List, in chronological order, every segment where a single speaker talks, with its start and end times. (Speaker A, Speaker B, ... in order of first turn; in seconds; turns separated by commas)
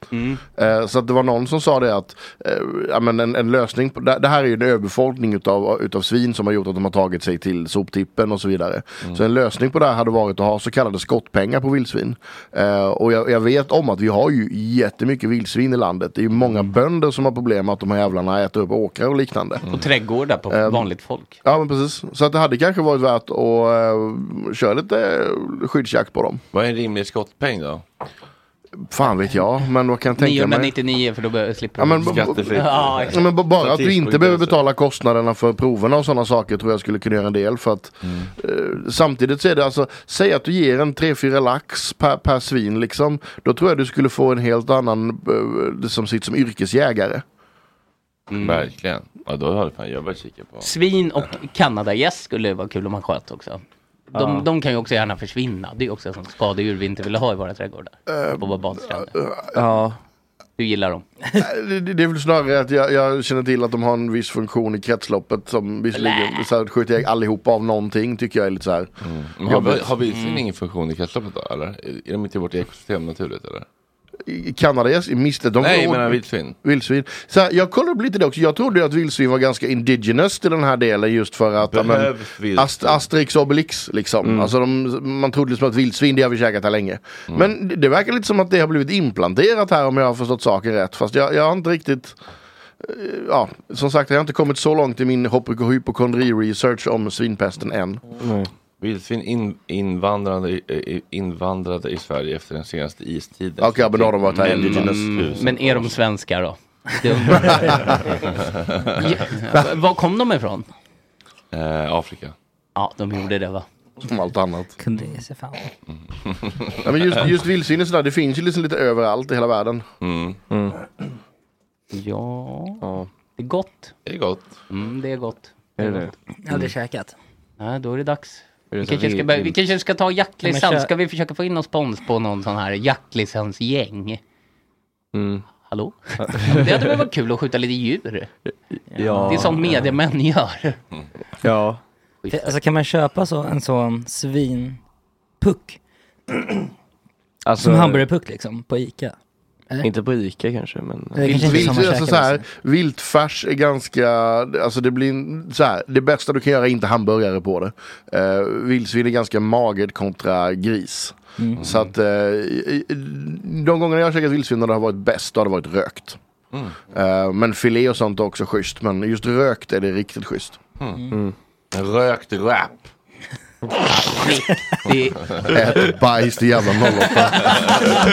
Speaker A: 0.1-0.4, Speaker B: 0.5-19.6, Speaker A: 19.7-21.4, Speaker B: 20.5-20.9, Speaker B: 21.4-26.4, Speaker C: 26.5-27.8, Speaker B: 28.9-30.7, Speaker A: 30.1-33.3, Speaker B: 31.8-32.6, Speaker C: 32.0-34.6, Speaker B: 33.1-47.2, Speaker C: 38.0-38.3, Speaker A: 48.3-48.7, Speaker C: 48.4-50.7, Speaker A: 50.6-59.1, Speaker D: 54.1-54.5, Speaker B: 58.1-59.6, Speaker D: 59.5-60.0, Speaker A: 60.6-61.0, Speaker B: 61.3-68.9, Speaker A: 65.9-66.5, Speaker C: 69.0-73.7, Speaker B: 69.5-69.9, Speaker A: 70.1-70.4, Speaker B: 74.2-92.2, Speaker C: 75.6-76.5, Speaker C: 81.7-83.0, Speaker D: 84.2-84.5, Speaker B: 92.8-98.0, Speaker D: 98.2-98.5, Speaker C: 98.8-106.0, Speaker B: 103.6-105.5, Speaker A: 104.3-108.0, Speaker C: 108.3-109.1, Speaker A: 108.9-110.7, Speaker C: 111.5-112.3, Speaker A: 112.8-113.6, Speaker B: 114.0-114.8, Speaker E: 114.8-115.7, Speaker C: 116.2-116.9, Speaker B: 116.8-119.8, Speaker C: 120.0-120.4, Speaker D: 120.5-120.8, Speaker A: 121.9-122.8, Speaker D: 122.8-123.1, Speaker A: 123.3-123.9, Speaker C: 124.0-124.6, Speaker A: 124.7-126.1, Speaker D: 125.8-126.1, Speaker E: 126.4-127.1, Speaker A: 127.6-134.2, Speaker D: 128.7-129.6, Speaker E: 130.4-130.9, Speaker D: 135.1-135.4, Speaker A: 135.7-138.3, Speaker D: 136.2-136.8, Speaker D: 138.9-139.8, Speaker E: 139.0-139.4, Speaker A: 139.2-140.8, Speaker D: 141.4-141.8, Speaker A: 142.2-142.6, Speaker E: 142.3-144.8, Speaker E: 145.4-146.7, Speaker D: 147.4-148.1, Speaker E: 147.6-149.1, Speaker D: 149.8-151.8, Speaker E: 151.1-152.4, Speaker B: 151.2-166.2, Speaker B: 166.9-170.6, Speaker C: 171.7-172.9, Speaker A: 173.8-175.3, Speaker B: 175.5-177.8, Speaker A: 177.1-178.0